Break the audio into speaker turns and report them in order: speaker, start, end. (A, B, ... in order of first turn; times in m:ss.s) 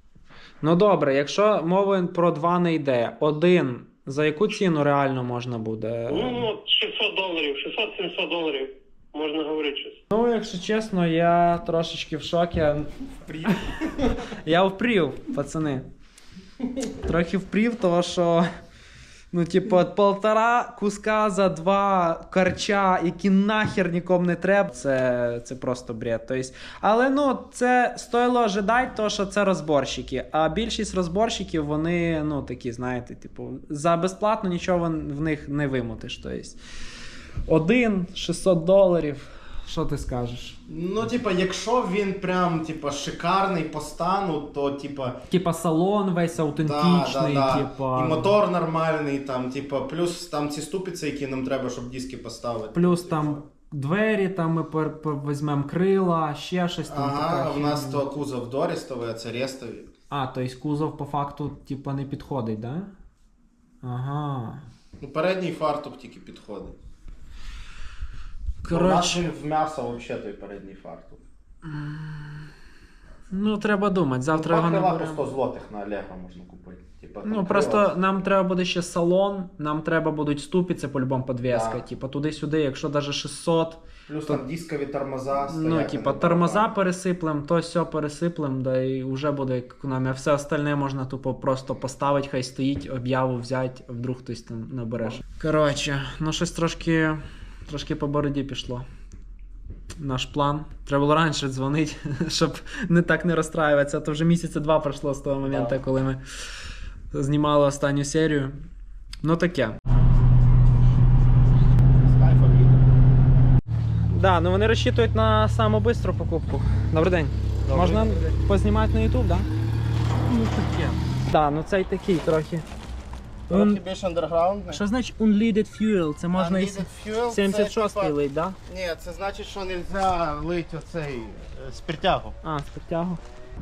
0:00.6-0:06.5 A
0:06.1-0:10.0 B
0:10.1-0:12.9 A
0:14.4-0:15.8 A
0:17.0-0:18.4 A
0:19.3-0:36.6 A
0:37.5-0:40.6 A
0:40.7-0:45.2 C
0:45.3-0:48.3 A
0:46.6-0:53.4 C
0:52.7-0:58.0 A
0:56.9-0:59.9 C
1:00.1-1:02.9 A
1:03.8-1:04.6 A
1:05.0-1:06.7 C
1:08.6-1:09.2 A
1:08.7-1:11.2 C
1:11.7-1:12.4 A
1:13.3-1:15.2 A
1:14.3-1:18.0 C
1:17.2-1:24.4 A
1:21.5-1:21.8 C
1:24.1-1:26.7 C
1:25.5-1:38.8 A
1:40.0-1:46.2 A
1:45.4-1:45.8 C
1:47.1-1:48.6 A
1:49.2-1:49.8 A
1:51.6-1:52.8 C
1:54.1-1:59.5 A
1:57.6-1:58.3 C
2:00.3-2:00.9 C
2:01.2-2:02.6 A
2:03.5-2:03.8 A
2:03.5-2:04.8 C
2:04.7-2:08.6 A
2:06.3-2:08.1 C
2:08.7-2:12.3 C
2:12.4-2:13.2 A